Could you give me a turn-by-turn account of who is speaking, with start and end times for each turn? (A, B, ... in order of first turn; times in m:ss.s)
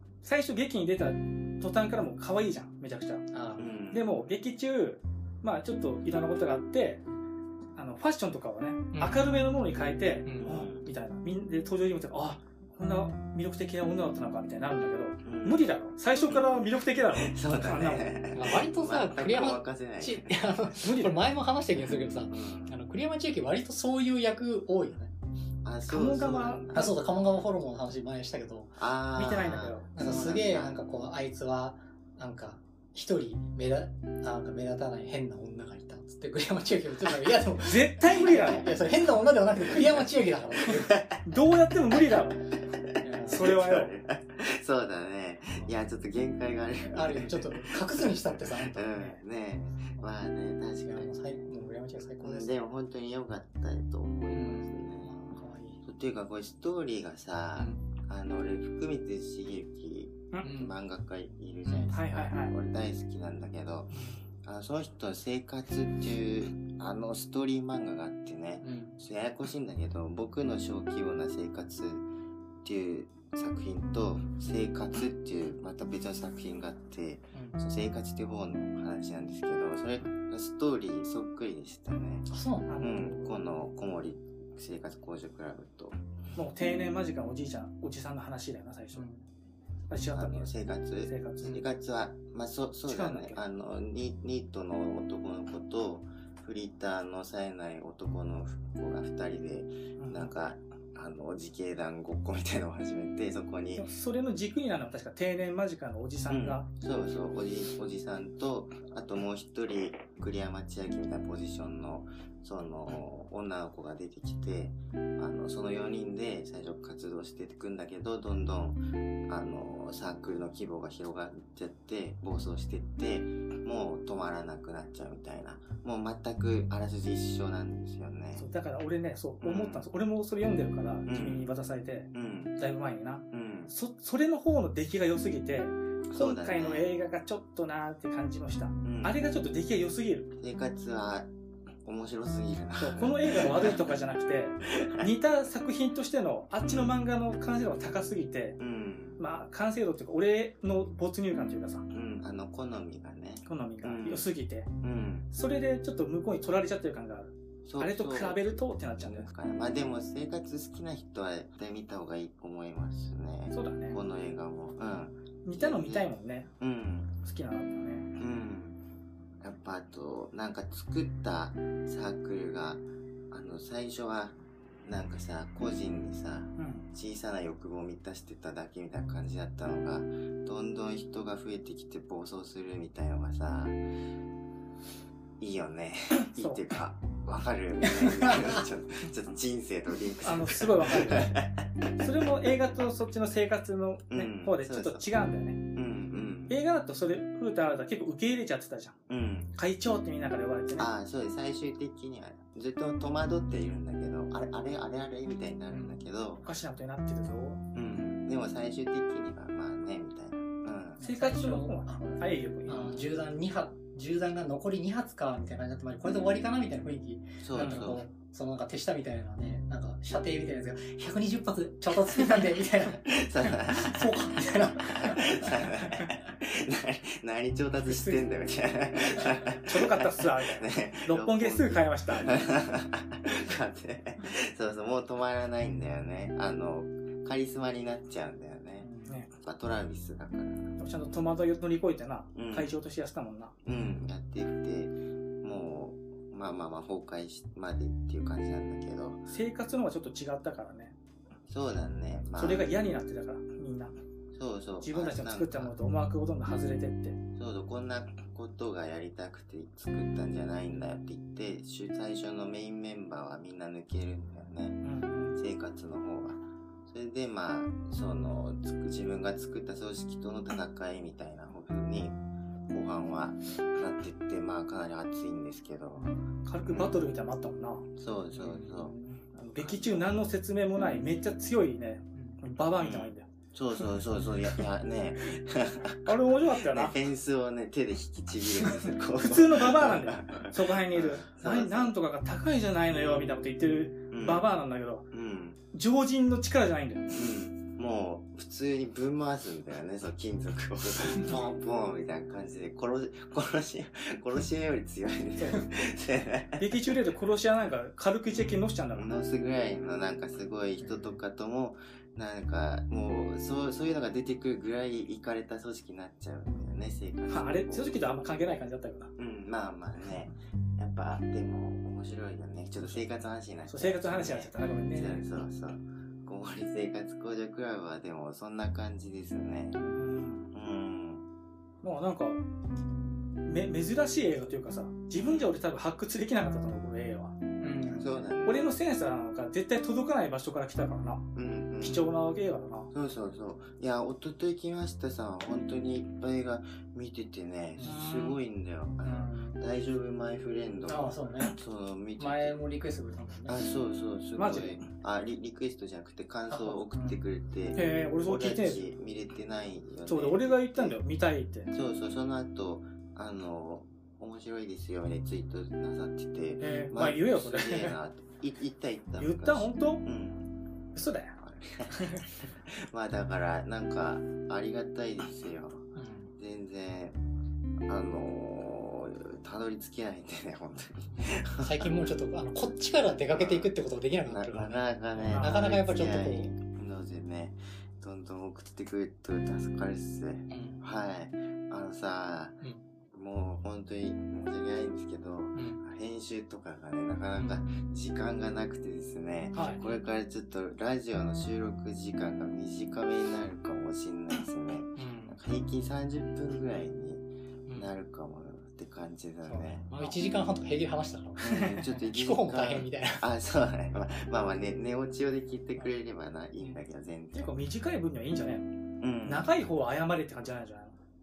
0:00.2-0:03.2 A
0:03.3-0:03.7 B
0:03.6-0:04.1 C
0:03.9-0:07.0 A
0:07.8-0:18.1 A
0:08.9-0:09.4 B
0:10.2-0:10.6 B
0:10.4-0:10.9 C
0:15.2-0:15.6 C
0:17.1-0:20.4 C
0:18.3-0:25.1 B
0:20.8-0:21.1 A
0:22.3-0:22.8 C
0:25.6-0:27.0 C
0:25.9-0:26.9 A
0:26.7-0:28.8 B
0:28.8-0:30.8 C
0:29.2-0:29.9 A
0:29.9-0:41.1 B
0:37.6-0:38.7 A
0:39.6-0:40.1 C
0:40.7-0:41.2 C
0:41.2-0:42.5 A
0:42.6-0:51.2 C
0:43.0-0:43.5 B
0:43.3-0:43.9 A
0:46.8-0:49.2 B
0:50.8-0:52.5 B
0:52.2-1:12.1 C
0:54.3-0:55.8 B
0:57.6-0:57.8 B
1:00.4-1:00.7 B
1:01.6-1:01.9 B
1:01.9-1:02.5 A
1:08.6-1:09.0 B
1:12.6-1:22.3 C
1:17.3-1:17.6 B
1:22.3-1:22.9 B
1:22.7-1:23.4 A
1:22.8-1:26.0 C
1:26.4-1:29.0 A
1:28.9-1:29.2 B
1:29.9-1:31.6 A
1:30.1-1:43.9 C
1:32.9-1:33.4 A
1:40.0-1:40.3 A
1:43.8-1:46.7 A
1:46.3-2:08.5 C
2:08.4-2:20.3 A
2:09.4-2:09.9 C
2:11.1-2:11.5 C
2:12.1-2:12.6 C
2:13.3-2:13.7 C
2:16.1-2:16.9 C
2:18.8-2:19.2 C
2:20.4-2:21.3 C
2:21.8-2:23.9 C
2:22.8-2:28.6 A
2:24.6-2:25.1 C
2:26.6-2:27.0 C
2:28.6-2:29.2 C
2:29.2-2:31.9 A
2:31.9-2:34.3 C
2:33.4-2:34.7 A
2:34.8-2:35.3 C
2:35.3-2:39.3 A
2:37.6-2:46.1 C
2:43.5-2:44.0 A
2:45.4-2:46.5 A
2:46.6-2:47.1 C
2:47.2-2:48.1 A
2:48.2-2:48.8 C
2:49.4-3:03.8 C
2:56.6-2:56.9 A
3:05.4-3:11.7 C
3:06.2-3:06.6 A
3:08.0-3:08.6 B
3:10.2-3:11.4 A
3:11.9-3:15.6 A
3:14.1-3:15.0 C
3:15.8-3:16.6 C
3:16.5-3:19.0 A
3:19.1-3:19.5 C
3:19.6-3:20.9 A
3:20.8-3:26.4 C
3:25.7-3:26.0 B
3:26.4-3:27.6 A
3:27.8-3:31.0 C
3:31.0-3:33.1 A
3:31.0-3:43.1 B
3:37.4-3:38.1 C
3:37.5-3:37.9 A
3:43.0-3:44.2 C
3:43.7-3:45.6 B
3:44.8-4:00.7 C
3:47.8-3:48.2 A
3:49.6-3:52.4 A
3:58.8-3:59.3 A
4:00.8-4:03.6 A
4:02.4-4:02.7 C
4:03.6-4:09.2 C
4:09.3-4:10.9 A
4:11.5-4:12.7 C
4:12.4-4:14.0 A
4:14.3-4:15.7 C
4:14.8-4:17.2 A
4:17.4-4:24.8 C
4:24.8-4:25.4 A
4:25.4-4:32.2 C
4:32.7-4:36.1 C
4:36.4-4:37.9 A
4:36.6-4:37.0 C
4:38.0-4:39.0 C
4:38.3-4:39.2 B
4:38.7-4:43.3 A
4:39.6-4:40.1 C
4:42.8-4:52.0 C
4:46.0-4:47.0 A
4:48.6-4:55.1 A
4:54.1-4:54.4 C
4:55.1-4:55.6 C
4:55.7-4:57.2 A
4:57.1-5:06.8 C
5:05.4-5:05.6 A
5:06.6-5:09.1 A
5:08.9-5:18.1 C
5:10.8-5:11.1 B
5:17.3-5:19.1 A
5:19.2-5:29.8 C
5:23.7-5:25.2 A
5:29.8-5:30.5 A
5:30.5-5:31.2 C
5:31.8-5:32.4 A
5:33.4-5:37.4 A
5:35.2-5:35.5 C
5:37.6-5:38.2 B
5:37.9-5:38.7 C
5:38.4-5:41.2 A
5:41.4-5:42.1 C
5:41.8-5:42.9 A
5:42.9-5:52.6 C
5:47.8-5:48.0 B
5:47.8-5:48.4 A
5:49.0-5:49.6 B
5:50.9-5:51.6 B
5:52.2-5:53.6 B
5:53.4-6:01.0 C
5:54.4-5:54.8 A
5:56.5-5:56.8 B
5:57.8-5:58.8 A
6:00.1-6:01.7 A
6:01.7-6:10.5 C
6:06.6-6:08.0 A
6:09.2-6:10.0 A
6:10.9-6:11.4 A
6:11.4-6:17.2 C
6:11.9-6:12.3 A
6:15.9-6:16.3 B
6:17.9-6:22.0 C
6:21.1-6:26.5 B
6:23.3-6:23.7 C
6:24.3-6:32.6 C
6:25.1-6:25.6 A
6:30.5-6:30.8 B
6:33.1-6:49.9 C
6:35.6-6:35.8 B
6:39.6-6:39.8 B
6:45.0-6:45.4 B
6:49.4-6:53.2 B
6:51.4-6:57.6 C
6:51.5-6:51.8 A
6:57.3-7:01.0 A
6:59.0-6:59.5 C